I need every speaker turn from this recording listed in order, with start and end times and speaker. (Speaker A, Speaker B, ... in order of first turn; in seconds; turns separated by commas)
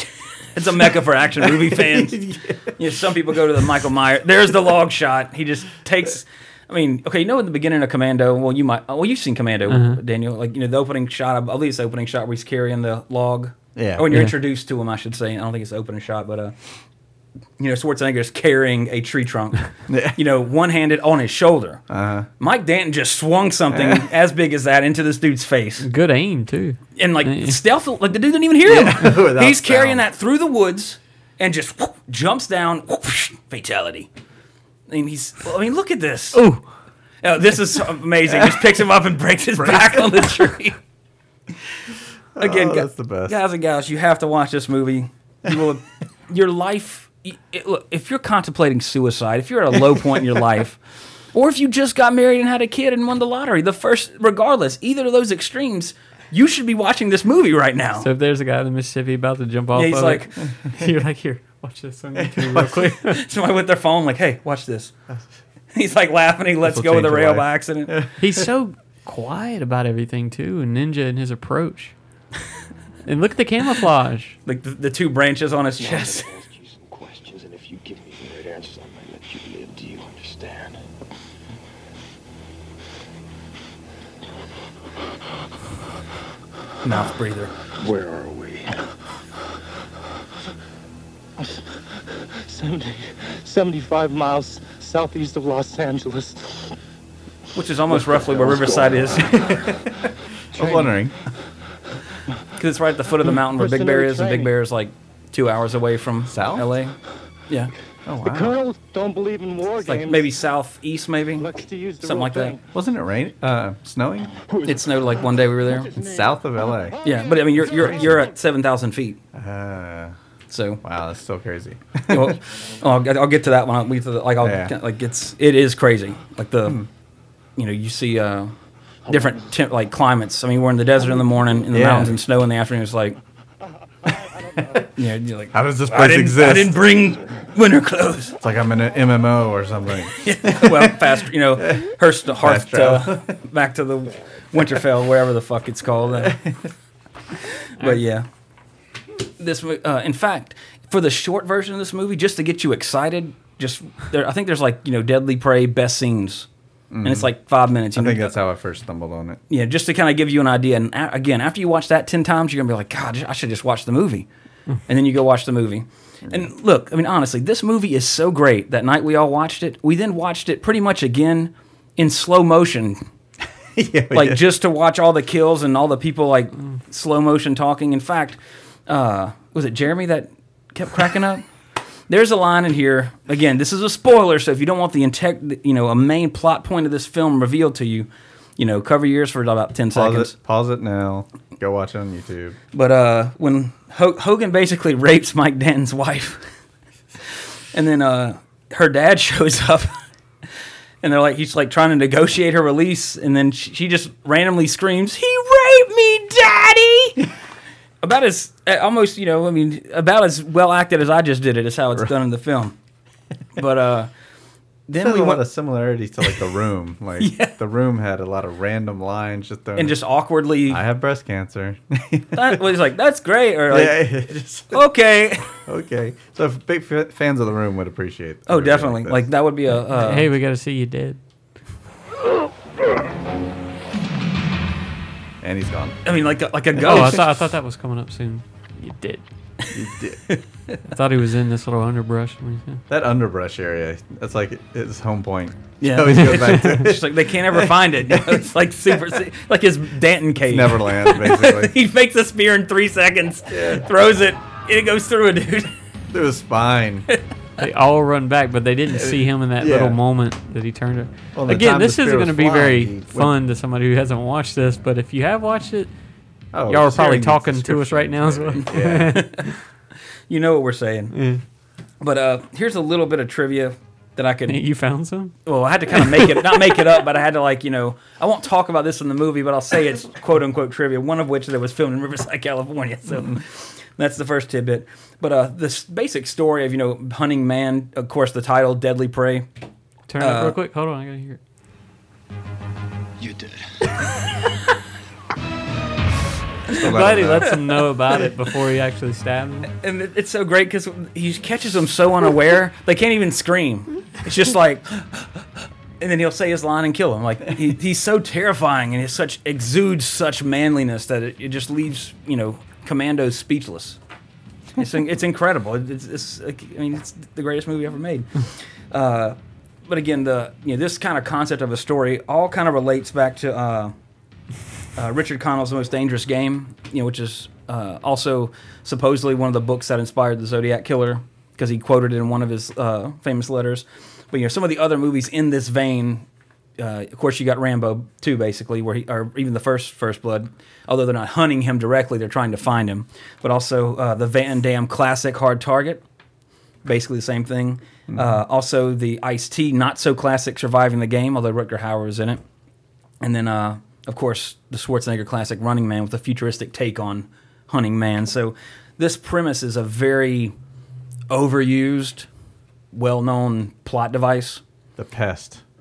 Speaker A: 0.5-16.6, Speaker B: 1.4-3.7, Speaker C: 9.7-10.0, Speaker B: 13.8-14.2, Speaker A: 17.6-21.8, Speaker B: 19.9-20.2, Speaker B: 21.9-22.3, Speaker A: 22.4-25.9, Speaker B: 23.7-24.0, Speaker C: 25.8-27.6, Speaker A: 27.0-34.1, Speaker B: 28.6-30.0, Speaker A: 34.9-36.5, Speaker C: 36.3-36.7, Speaker A: 37.2-40.8, Speaker B: 42.4-43.4, Speaker A: 42.4-50.8, Speaker A: 51.3-58.1, Speaker C: 58.0-63.2, Speaker A: 59.7-60.3, Speaker B: 62.2-62.9, Speaker A: 63.0-64.9, Speaker A: 65.7-67.9, Speaker B: 66.6-68.5, Speaker C: 68.2-72.0, Speaker C: 73.0-74.4, Speaker A: 74.5-76.3, Speaker D: 75.8-80.8, Speaker A: 86.8-87.5, Speaker D: 87.8-88.9, Speaker E: 91.4-96.8, Speaker A: 97.5-99.5, Speaker D: 98.0-99.5, Speaker B: 99.2-101.2, Speaker E: 100.5-101.3, Speaker A: 102.6-107.0, Speaker E: 103.3-104.5, Speaker B: 106.3-106.7, Speaker A: 107.5-107.7, Speaker B: 108.0-108.6, Speaker E: 108.2-110.4, Speaker A: 109.8-112.6, Speaker E: 111.4-112.7, Speaker B: 112.7-114.3, Speaker E: 114.5-118.2, Speaker A: 114.7-115.9, Speaker B: 115.9-117.0, Speaker A: 117.0-119.2, Speaker B: 119.3-120.2, Speaker A: 120.5-120.8, Speaker B: 120.8-122.4, Speaker A: 122.1-126.8, Speaker B: 124.4-124.7, Speaker A: 127.6-128.5, Speaker A: 129.1-133.2, Speaker B: 131.7-132.2, Speaker B: 134.1-134.9, Speaker A: 134.9-138.4, Speaker B: 135.5-136.8, Speaker B: 138.4-143.4, Speaker A: 140.2-146.4, Speaker B: 146.2-146.7, Speaker C: 147.8-148.0, Speaker A: 147.8-148.3, Speaker A: 149.4-156.5, Speaker B: 156.9-157.3, Speaker A: 157.0-158.4, Speaker B: 157.9-159.4, Speaker A: 159.5-164.3, Speaker A: 164.9-173.0, Speaker B: 173.8-174.4, Speaker A: 174.1-181.5, Speaker A: 182.1-190.3, Speaker B: 189.9-192.6, Speaker A: 192.7-196.4, Speaker A: 197.2-200.0, Speaker A: 201.0-207.2, Speaker A: 208.0-212.8, Speaker A: 213.6-214.1, Speaker A: 214.9-215.4, Speaker B: 215.0-220.0, Speaker A: 217.2-217.5, Speaker A: 219.8-220.8, Speaker B: 220.7-222.6, Speaker A: 222.3-225.6, Speaker B: 223.7-224.8, Speaker B: 225.6-229.3, Speaker A: 228.5-230.3, Speaker C: 230.0-231.2, Speaker B: 235.4-236.1, Speaker A: 236.1-237.3, Speaker C: 236.8-239.2, Speaker B: 239.7-240.4, Speaker C: 240.9-242.8, Speaker B: 242.9-248.4, Speaker A: 245.8-255.7, Speaker C: 246.3-246.7, Speaker B: 250.5-251.7, Speaker B: 253.5-253.9, Speaker B: 256.1-257.1, Speaker C: 257.6-269.6, Speaker B: 258.9-260.0, Speaker B: 261.3-263.3, Speaker B: 266.5-269.4, Speaker A: 268.8-269.4, Speaker A: 270.3-271.4, Speaker C: 271.1-271.4, Speaker A: 272.0-274.6, Speaker C: 274.5-276.9, Speaker A: 275.4-289.5, Speaker C: 290.1-291.4, Speaker A: 290.2-290.6, Speaker D: 293.2-293.6, Speaker B: 296.7-297.6, Speaker C: 296.7-299.7, Speaker A: 299.8-305.4, Speaker A: 306.0-314.0, Speaker A: 314.8-323.9, Speaker A: 324.9-336.3, Speaker A: 336.8-346.0, Speaker A: 346.8-352.4, Speaker B: 348.1-348.4, Speaker A: 353.2-360.5, Speaker A: 361.3-362.3, Speaker A: 362.9-364.6, Speaker B: 365.0-365.6